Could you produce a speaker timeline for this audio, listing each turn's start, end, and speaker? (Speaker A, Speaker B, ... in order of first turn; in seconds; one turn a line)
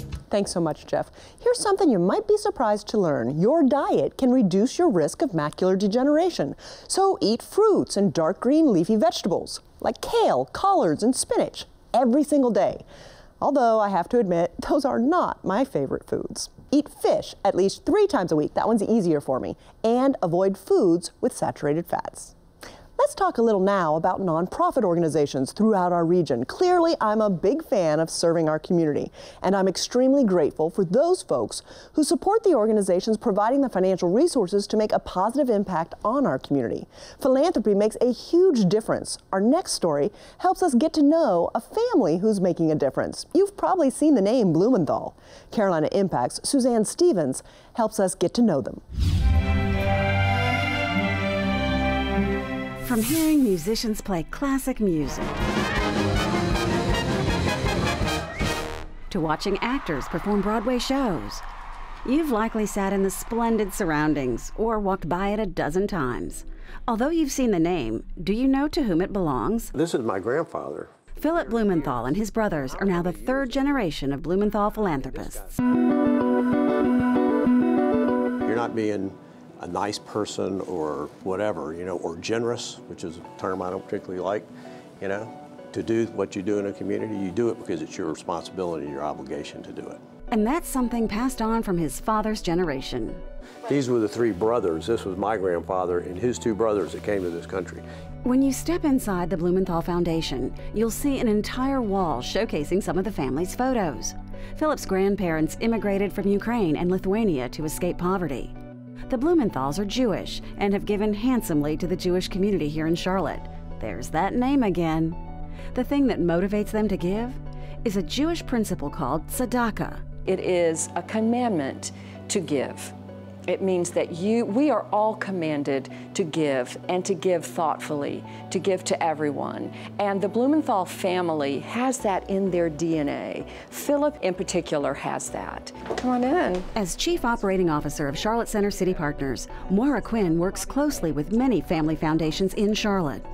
Speaker A: 0.3-12.8
Speaker A: 13.4-22.3
Speaker A: 23.0-48.8
Speaker B: 52.8-55.4
Speaker B: 59.1-61.4
Speaker B: 62.0-69.7
Speaker C: 69.7-73.7
Speaker B: 71.2-75.5
Speaker C: 74.8-75.5
Speaker C: 78.4-84.5
Speaker C: 85.0-90.0
Speaker B: 90.3-93.2
Speaker C: 93.7-97.8
Speaker B: 98.2-108.5
Speaker B: 109.1-115.2
Speaker B: 115.7-120.0
Speaker D: 120.2-122.9
Speaker D: 123.5-136.7
Speaker B: 136.7-143.2